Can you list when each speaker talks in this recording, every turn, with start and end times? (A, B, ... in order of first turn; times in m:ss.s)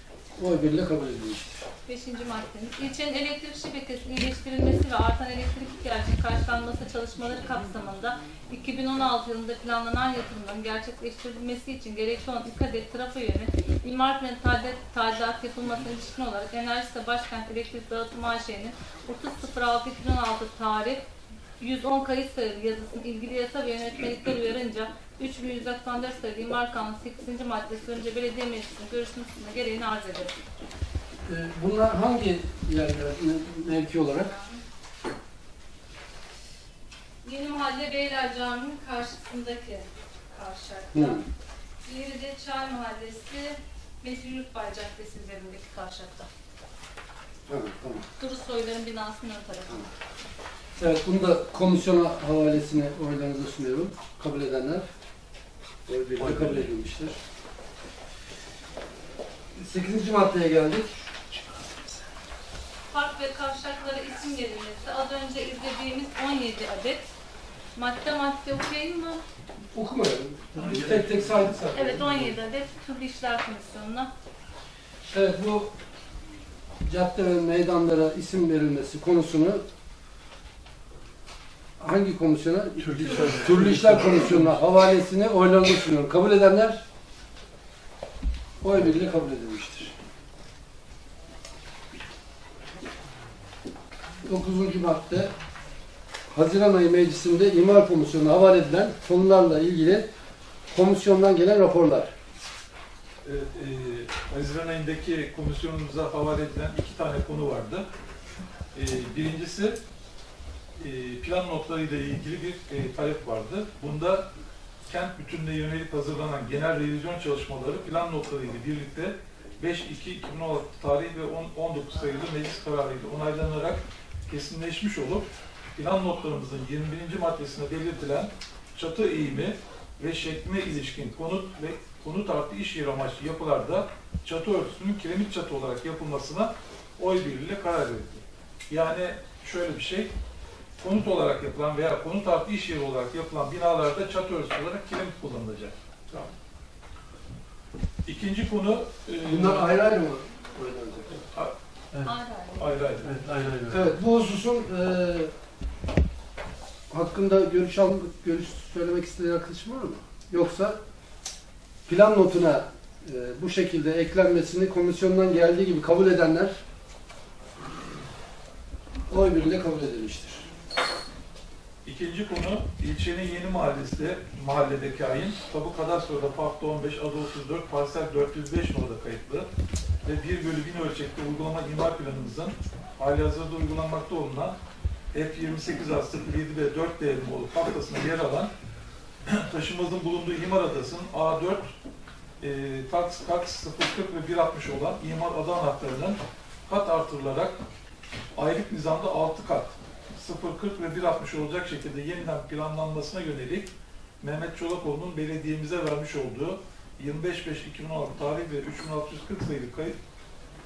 0:00.4-0:01.6 A
0:01.8-0:21.0 B
0:21.6-0:30.4 B
0:31.3-0:34.3 A
0:34.2-0:34.6 B
0:37.2-0:41.2 B
0:40.9-0:41.2 A
0:41.8-0:46.3 B
0:47.5-0:48.1 A
0:48.2-0:49.9 B
0:50.8-0:54.9 A
0:55.9-0:57.2 A
0:59.6-1:01.0 A
1:02.9-1:07.0 B
1:07.7-1:09.2 B
1:09.7-1:12.1 A
1:10.6-1:11.5 C
1:11.7-1:14.1 B
1:15.1-1:15.7 A
1:16.8-1:19.6 A
1:21.8-1:26.8 A
1:22.8-1:24.6 D
1:28.6-1:29.9 A
1:34.2-1:35.3 A
1:36.3-1:40.1 A
1:40.7-1:42.1 A
1:43.2-1:47.9 C
1:48.7-1:49.8 C
1:50.8-1:54.3 C
1:54.8-2:20.1 C
2:20.8-2:26.3 C
2:28.0-2:29.8 C
2:29.2-2:31.2 A
2:32.0-2:32.8 B
2:32.6-2:33.1 C
2:33.0-2:33.9 D
2:33.7-2:35.3 A
2:36.9-2:40.8 A
2:41.9-2:46.6 A
2:49.1-2:50.5 A
2:51.8-2:59.5 C
3:00.0-3:04.6 C
3:05.1-3:08.5 C
3:09.3-3:11.6 C
3:12.4-3:17.6 C
3:18.4-3:23.7 C
3:24.2-3:30.0 C